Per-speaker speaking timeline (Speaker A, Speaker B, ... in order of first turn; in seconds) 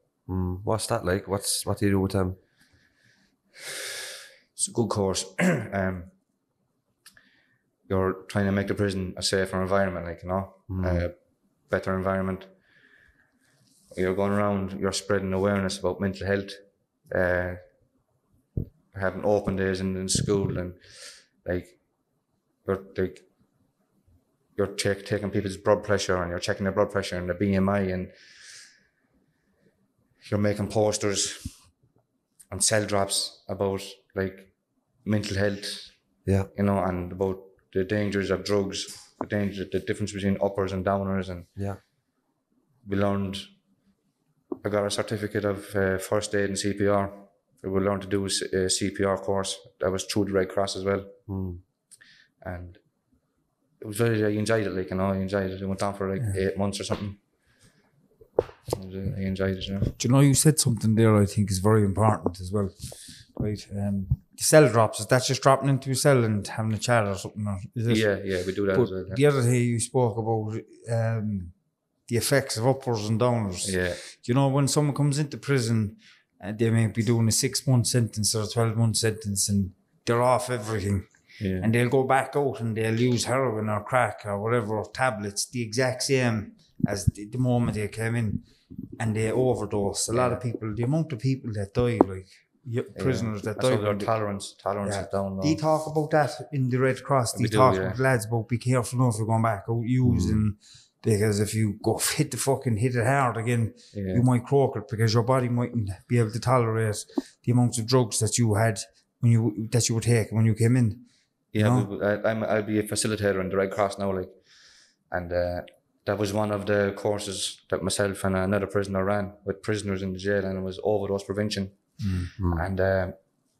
Speaker A: 0.3-2.4, 10.7-11.1, 51.3-51.6, 122.4-122.7
Speaker B: 4.5-6.1, 7.9-12.5, 13.9-17.6, 18.9-23.2, 24.6-28.1, 30.2-31.7, 32.5-36.0, 36.5-41.5, 42.8-43.5, 44.6-51.2, 52.4-52.8, 53.8-57.2, 58.7-59.9, 67.9-69.2, 73.6-74.0, 81.4-81.7, 90.1-90.4, 92.9-95.6, 97.3-98.0, 103.9-104.2, 111.5-114.4, 115.0-123.2
Speaker C: 60.0-71.5, 72.0-94.1, 94.8-111.9, 122.0-122.3